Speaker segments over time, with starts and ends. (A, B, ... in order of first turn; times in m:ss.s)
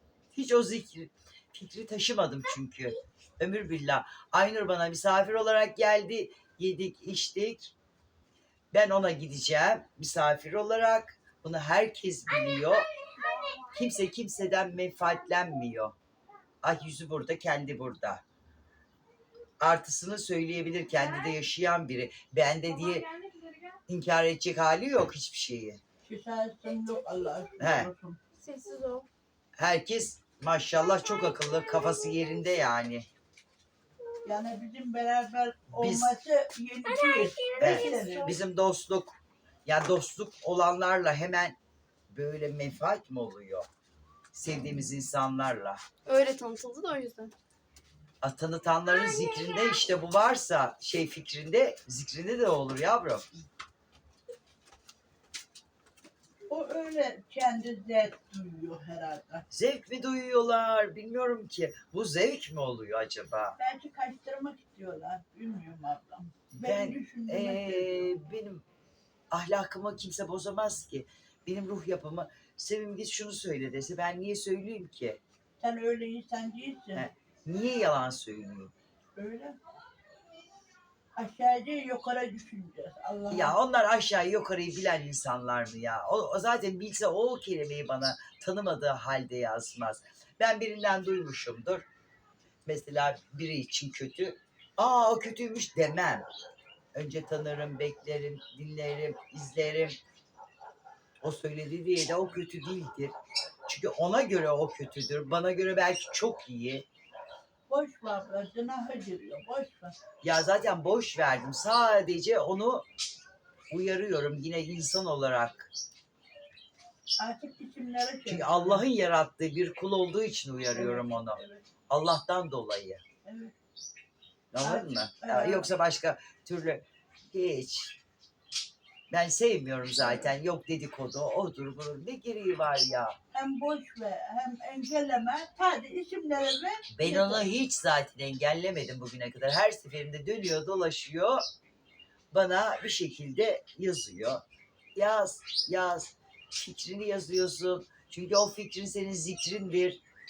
0:00.3-0:07.7 A
0:08.7-0:12.9 A
0:13.6-0:15.9 A
0:16.6-0:18.2 A
0:19.6-0:23.1 A
0:22.9-0:23.6 B
0:23.9-0:25.8 A
0:26.0-0:28.2 C
0:27.6-0:27.9 A
0:28.4-0:29.1 B
0:29.6-0:33.1 A
0:34.2-0:38.4 C
0:35.7-0:36.2 A
0:36.8-0:38.3 B
0:37.6-0:41.6 A
0:42.1-0:43.7 A
0:44.3-0:45.8 A
0:46.0-0:47.3 B
0:48.2-0:53.2 A
0:56.5-0:59.4 C
0:59.5-1:03.6 A
1:03.6-1:08.2 C
1:06.5-1:08.6 A
1:09.3-1:15.2 A
1:15.6-1:17.1 C
1:16.9-1:18.7 A
1:19.1-1:19.6 C
1:21.2-1:23.6 C
1:23.3-1:31.8 A
1:32.6-1:36.2 A
1:36.9-1:40.0 A
1:41.2-1:43.1 A
1:43.7-1:46.8 A
1:47.7-1:49.9 C
1:50.2-1:52.9 A
1:53.7-1:55.7 A
1:57.2-1:58.9 C
1:58.3-2:03.0 A
2:00.7-2:01.6 C
2:03.2-2:03.5 C
2:04.5-2:08.0 A
2:04.6-2:05.7 C
2:09.1-2:13.2 A
2:13.3-2:17.5 C
2:16.9-2:21.4 A
2:22.3-2:24.4 A
2:24.9-2:30.0 A